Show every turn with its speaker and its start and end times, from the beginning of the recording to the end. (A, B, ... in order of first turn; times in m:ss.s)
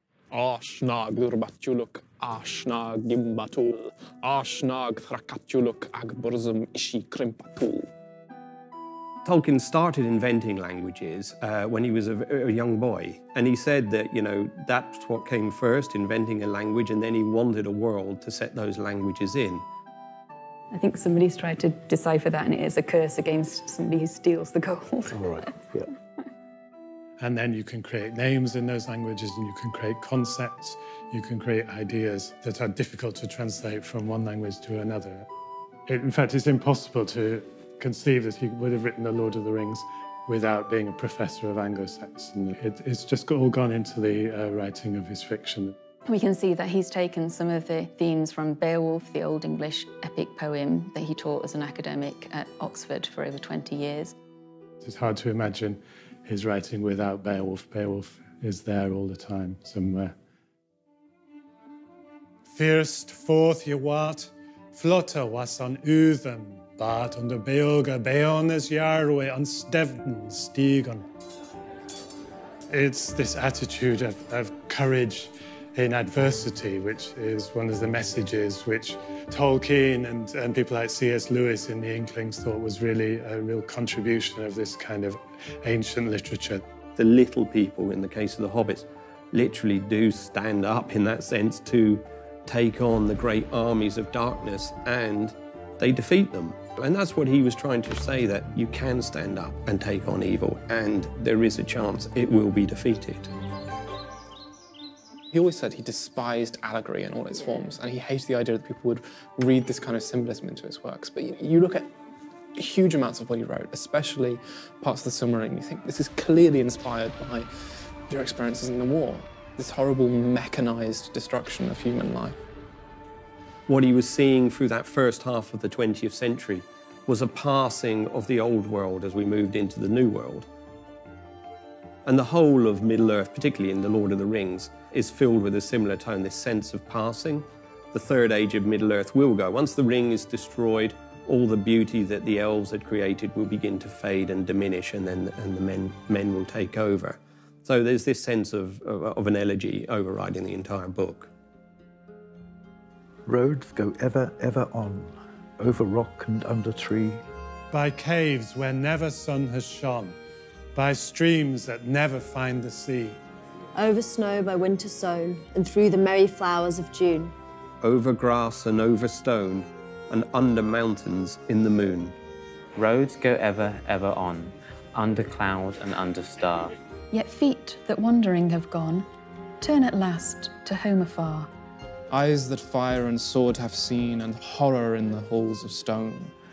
0:00.3-0:07.9 A
0:09.2-0:19.6 B
0:20.7-0:25.6 C
0:25.2-0:25.9 D
0:27.2-0:35.3 E
0:35.9-0:45.7 E
0:46.1-0:54.2 C
0:54.8-1:00.1 E
1:02.5-1:11.1 E
1:12.7-1:26.6 E
1:27.0-1:43.3 B
1:45.3-1:51.9 A
1:52.6-1:57.4 A
1:58.1-2:02.4 A
2:03.7-2:10.5 B
2:12.0-2:31.3 B
2:33.2-2:37.2 D
2:37.7-2:40.2 E
2:40.8-2:43.2 E
2:43.8-2:47.4 F
2:47.8-2:52.2 B
2:52.8-2:56.7 G
2:57.1-2:59.1 C
2:59.6-3:01.5 C
3:02.1-3:06.3 A